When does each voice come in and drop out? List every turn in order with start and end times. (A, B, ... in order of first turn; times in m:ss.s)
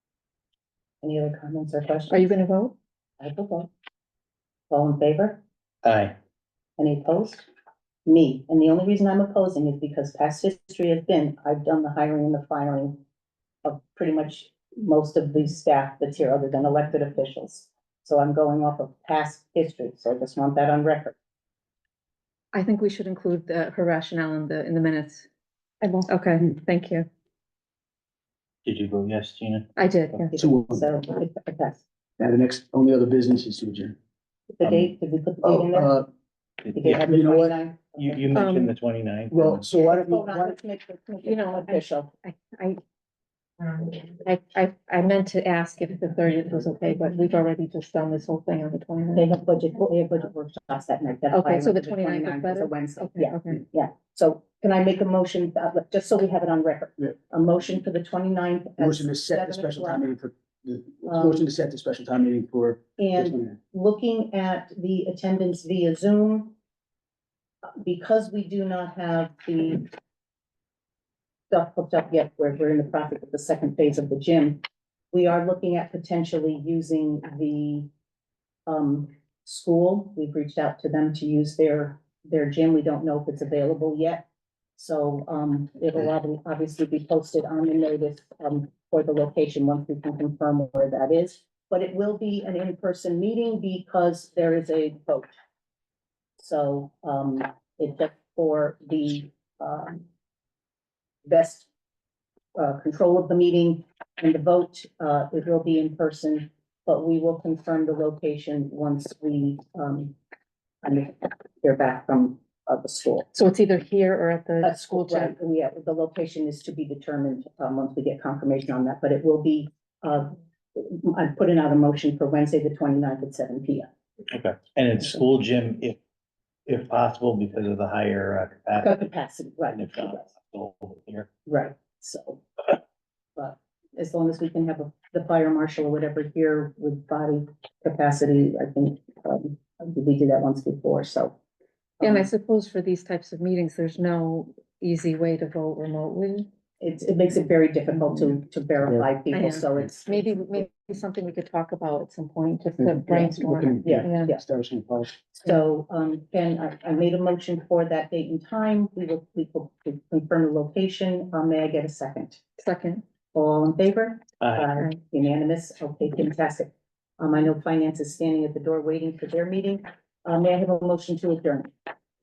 0:01.0-0:02.3 A
0:02.1-0:02.7 B
0:03.2-0:03.7 A
0:04.7-0:05.4 A
0:05.8-0:06.1 C
0:06.8-0:07.5 A
0:08.0-0:13.0 A
0:13.6-0:21.2 A
0:22.5-0:25.3 B
0:25.8-0:27.1 B
0:28.6-0:29.7 C
0:29.8-0:30.3 B
0:30.2-0:31.8 A
0:30.4-0:30.9 D
0:32.2-0:34.0 D
0:34.6-0:36.0 A
0:35.4-0:36.1 D
0:36.7-0:37.0 C
0:36.7-0:38.3 A
0:36.8-0:37.6 D
0:38.0-0:39.6 C
0:38.3-0:38.7 B
0:39.3-0:40.6 D
0:39.8-0:42.1 A
0:41.2-0:42.8 B
0:43.6-0:49.3 B
0:49.2-1:00.0 A
0:51.3-0:53.6 B
0:58.8-1:03.6 D
1:01.0-1:01.5 A
1:03.0-1:06.5 A
1:07.8-1:09.9 A
1:11.5-1:17.9 A
1:18.7-1:35.3 A
1:36.4-1:40.0 A
1:41.2-1:41.7 A
1:42.5-1:50.2 A
1:50.8-1:53.3 A
1:53.3-1:55.3 B
1:54.6-2:03.9 A
2:04.3-2:06.0 C
2:06.7-2:09.1 C
2:08.8-2:10.3 A
2:09.7-2:11.3 C
2:11.5-2:12.4 A
2:13.4-2:21.4 A
2:22.0-2:22.3 A
2:22.0-2:26.5 B
2:26.8-2:30.7 A
2:27.9-2:28.4 B
2:29.3-2:34.3 B
2:32.8-2:35.2 D
2:33.8-2:34.4 A
2:35.3-2:42.4 A
2:42.6-2:43.0 B
2:43.3-2:51.7 A
2:44.4-2:44.7 C